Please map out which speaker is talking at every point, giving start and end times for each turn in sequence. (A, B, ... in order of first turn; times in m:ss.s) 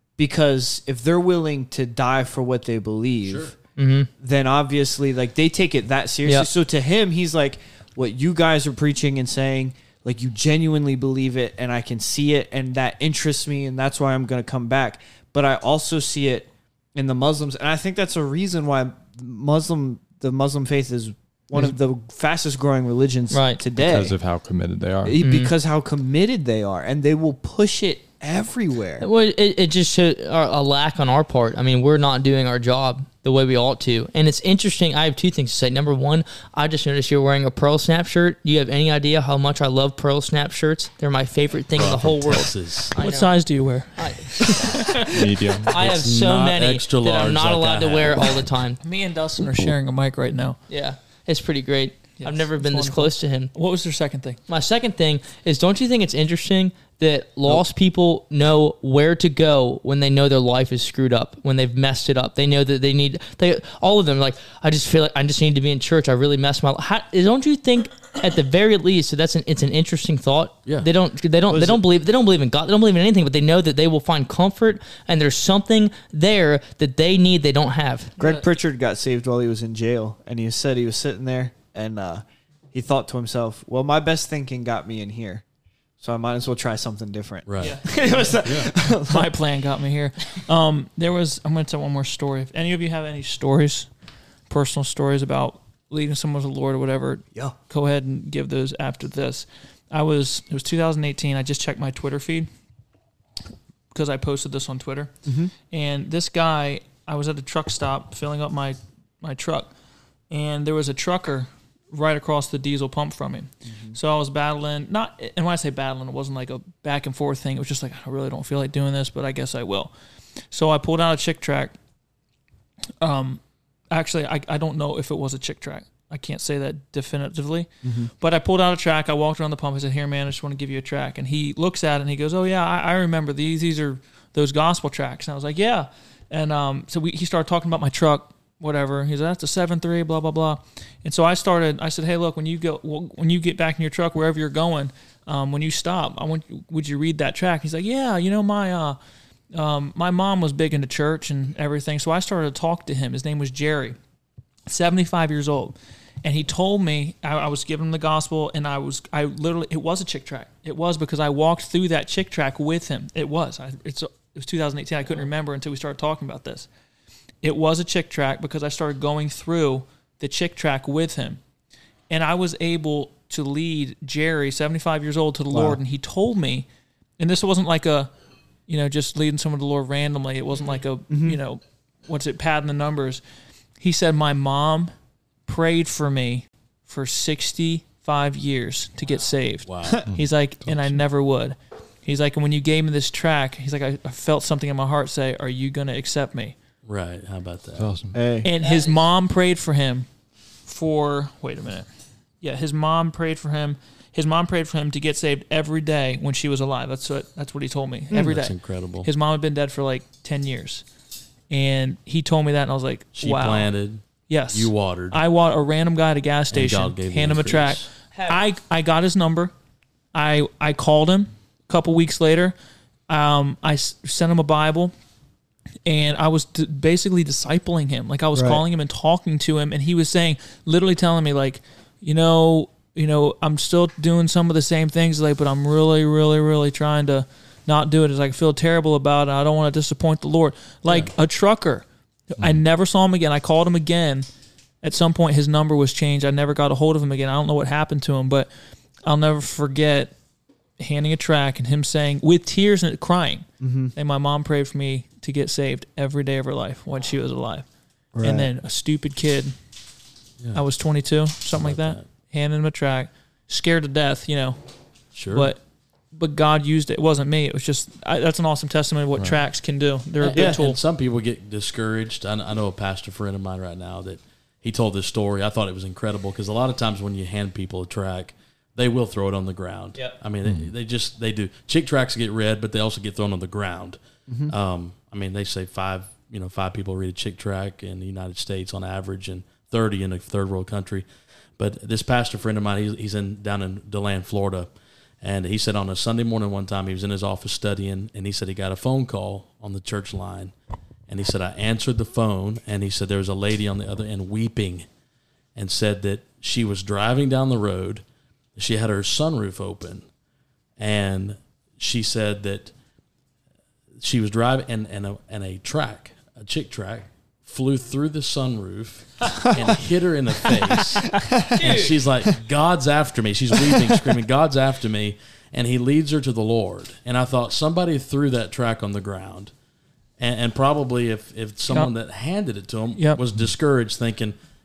0:00.2-0:03.6 A
0:03.2-0:03.6 B
0:03.8-0:04.1 C
0:04.2-0:24.1 A
0:23.3-0:23.6 C
0:23.8-0:25.2 D
0:25.0-0:29.1 A
0:25.2-0:25.5 C
0:29.0-0:45.1 C
0:41.8-0:43.0 B
0:43.0-0:45.2 E
0:45.1-0:45.7 D
0:45.6-0:48.8 C
0:45.7-0:48.5 B
0:48.8-0:50.6 E
0:50.7-0:53.5 C
0:52.2-0:54.4 E
0:54.5-1:18.2 C
1:11.5-1:11.8 A
1:18.2-1:25.4 A
1:26.0-1:29.3 A
1:27.5-1:28.7 B
1:27.6-1:33.9 E
1:34.5-1:42.5 E
1:43.9-1:45.1 E
1:45.3-1:45.5 A
1:45.7-1:49.7 E
1:50.3-1:59.9 E
1:53.7-1:54.0 A
2:00.5-2:01.8 E
2:03.0-2:03.4 E
2:03.9-2:29.0 E
2:07.8-2:08.1 A
2:29.5-2:34.0 E
2:34.7-2:46.7 E
2:47.4-2:51.4 E
2:52.1-2:56.7 E
2:55.5-2:55.8 A
2:57.2-2:58.1 E
2:58.7-3:03.2 E
3:01.1-3:01.4 A
3:03.8-3:04.9 E
3:05.5-3:16.6 E
3:09.6-3:10.1 B
3:10.1-3:11.0 D
3:16.8-3:17.9 B
3:17.8-3:18.2 D
3:18.1-3:18.5 A
3:18.4-3:20.1 E
3:18.6-3:19.0 C
3:20.7-3:21.9 E
3:22.4-3:30.8 E
3:28.3-3:29.1 B
3:31.5-3:33.7 E
3:33.2-3:35.2 B
3:34.3-3:39.5 E
3:36.5-3:37.9 B
3:38.1-3:38.4 C
3:40.1-3:42.5 E
3:43.1-3:44.9 E
3:45.8-4:04.3 E
3:48.4-3:48.6 A
4:00.9-4:01.1 B
4:04.8-4:08.5 E
4:09.0-4:10.1 E
4:10.8-4:17.7 E
4:13.6-4:13.9 A
4:18.2-4:18.5 A
4:18.2-4:19.6 E
4:20.5-4:24.6 E
4:21.5-4:22.1 B
4:25.1-4:25.5 B
4:25.3-4:30.8 E
4:30.2-4:51.1 B
4:44.3-4:44.5 A
4:51.6-4:54.7 B
4:55.2-5:00.5 B
5:01.1-5:04.9 B
5:05.6-5:08.0 B
5:08.6-5:10.1 B
5:10.8-5:12.7 B
5:14.0-5:29.5 B
5:21.5-5:22.0 C
5:30.2-5:34.4 B